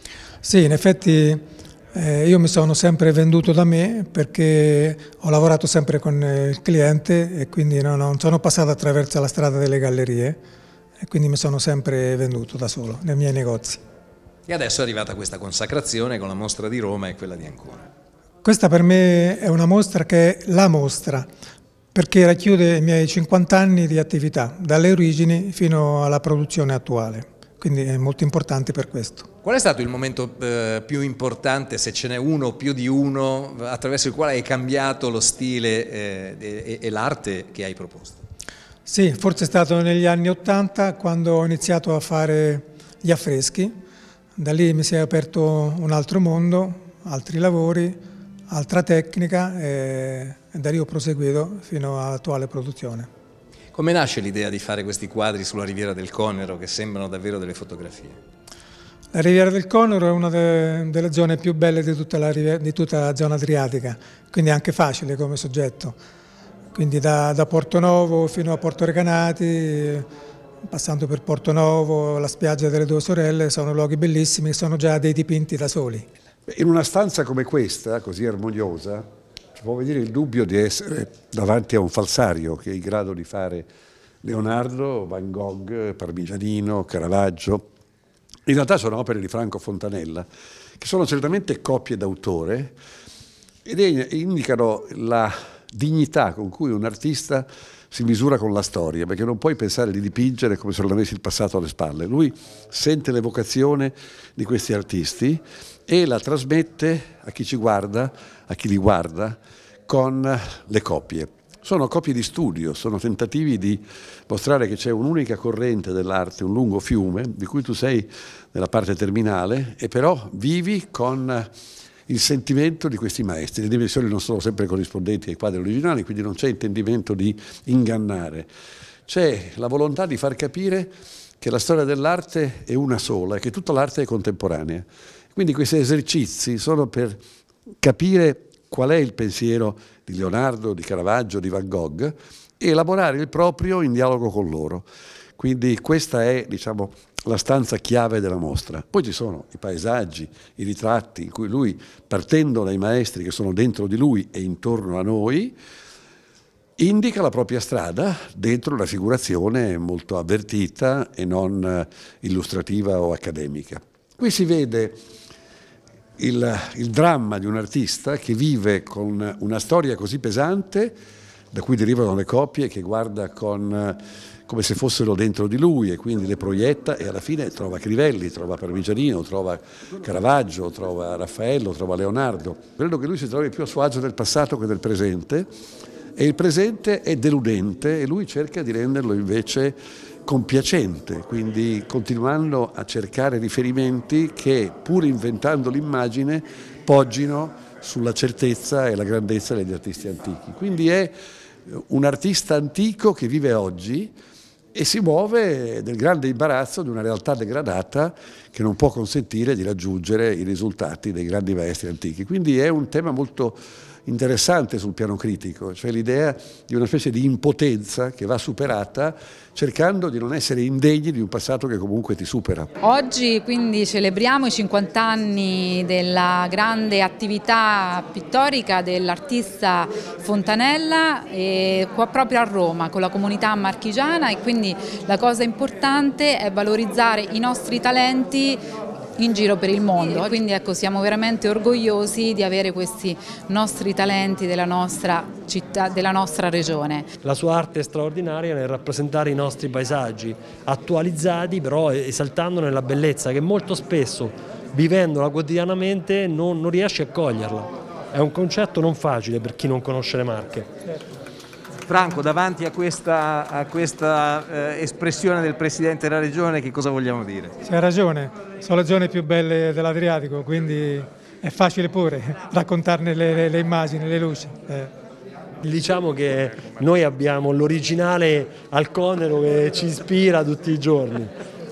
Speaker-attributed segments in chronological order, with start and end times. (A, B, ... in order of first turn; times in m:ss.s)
0:00.4-0:10.4 A
0:11.0-0:13.8 A
0:14.5-0:17.8 B
0:18.4-0:21.3 A
0:21.9-0:29.3 A
0:29.4-0:38.2 B
0:38.8-0:43.7 A
0:44.4-0:53.1 A
0:53.7-0:58.2 B
0:59.1-1:06.0 A
1:06.7-1:10.0 A
1:10.7-1:16.1 A
1:16.5-1:19.0 C
1:19.6-1:23.7 C
1:24.2-1:27.6 C
1:28.5-1:30.3 C
1:30.8-1:32.8 C
1:33.6-2:01.5 C
2:02.1-2:08.5 C
2:09.1-2:17.2 C
2:17.8-2:24.8 C
2:25.4-2:35.6 C
2:36.8-2:45.0 C
2:46.2-2:51.0 C
2:51.5-3:05.5 C
3:06.2-3:21.1 C
3:21.7-3:24.1 C
3:24.7-3:42.7 C
3:42.8-3:58.6 D
3:59.2-4:07.1 D
4:07.2-4:20.7 E
4:21.8-4:27.6 B
4:27.6-4:34.9 A
4:35.6-4:41.3 E